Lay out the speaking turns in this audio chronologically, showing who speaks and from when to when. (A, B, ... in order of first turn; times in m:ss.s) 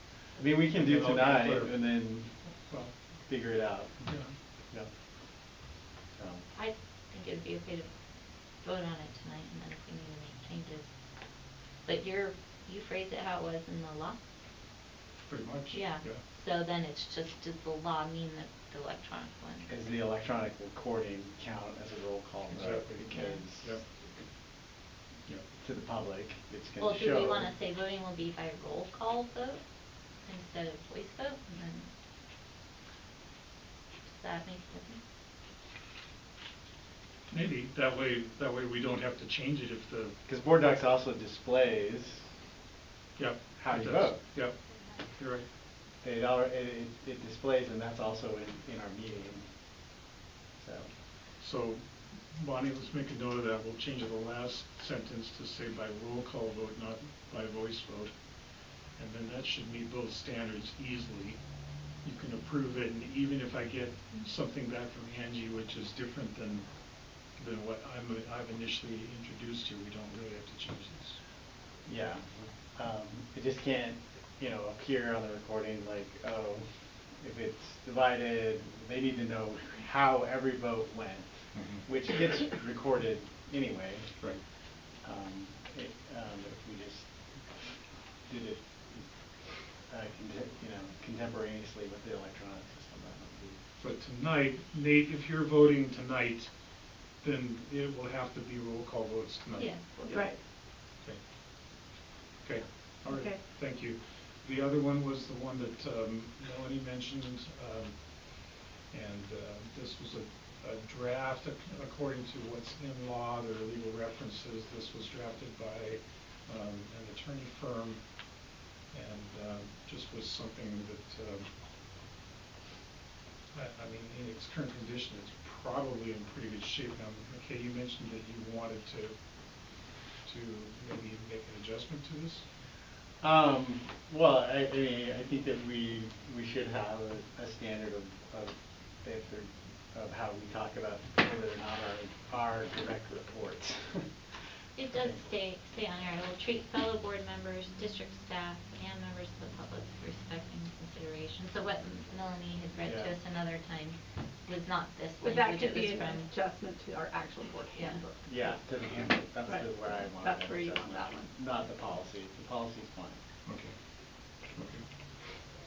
0:00.4-0:02.3 A
0:00.7-0:01.8 B
0:03.3-0:03.9 A
0:04.0-0:04.3 B
0:06.2-0:06.4 A
0:06.6-0:07.9 C
0:08.6-0:10.9 C
0:11.8-0:14.2 C
0:15.3-0:16.2 B
0:15.7-0:19.7 C
0:19.7-0:23.8 A
0:22.5-0:23.1 B
0:23.1-0:23.4 C
0:25.6-0:27.5 A
0:26.8-0:29.6 C
0:30.2-0:31.9 C
0:34.1-0:35.0 C
0:37.3-0:40.2 B
0:40.3-0:42.3 A
0:43.2-0:44.6 B
0:43.6-0:44.2 A
0:45.2-0:45.4 B
0:46.0-0:49.4 A
0:50.6-0:50.9 A
0:51.4-0:51.8 B
0:52.3-0:58.1 B
0:59.0-1:01.4 B
1:02.0-1:06.7 B
1:07.3-1:11.2 B
1:11.9-1:16.7 A
1:17.2-1:24.2 A
1:21.6-1:21.8 B
1:25.0-1:27.1 A
1:28.3-1:29.1 A
1:29.9-1:33.6 A
1:33.8-1:36.5 B
1:37.2-1:40.2 B
1:39.6-1:40.0 C
1:40.0-1:40.4 D
1:42.4-1:58.1 B
1:43.0-1:43.4 D
1:58.9-2:01.5 B
2:03.5-2:09.2 B
2:10.2-2:12.4 B
2:13.2-2:24.1 A
2:24.8-2:36.3 C
2:24.9-2:25.2 A
2:32.8-2:33.2 A
2:35.2-2:38.5 D
2:37.8-2:38.0 C
2:38.2-2:43.2 A
2:39.5-2:41.3 D
2:43.5-2:43.7 B
2:44.4-2:44.9 B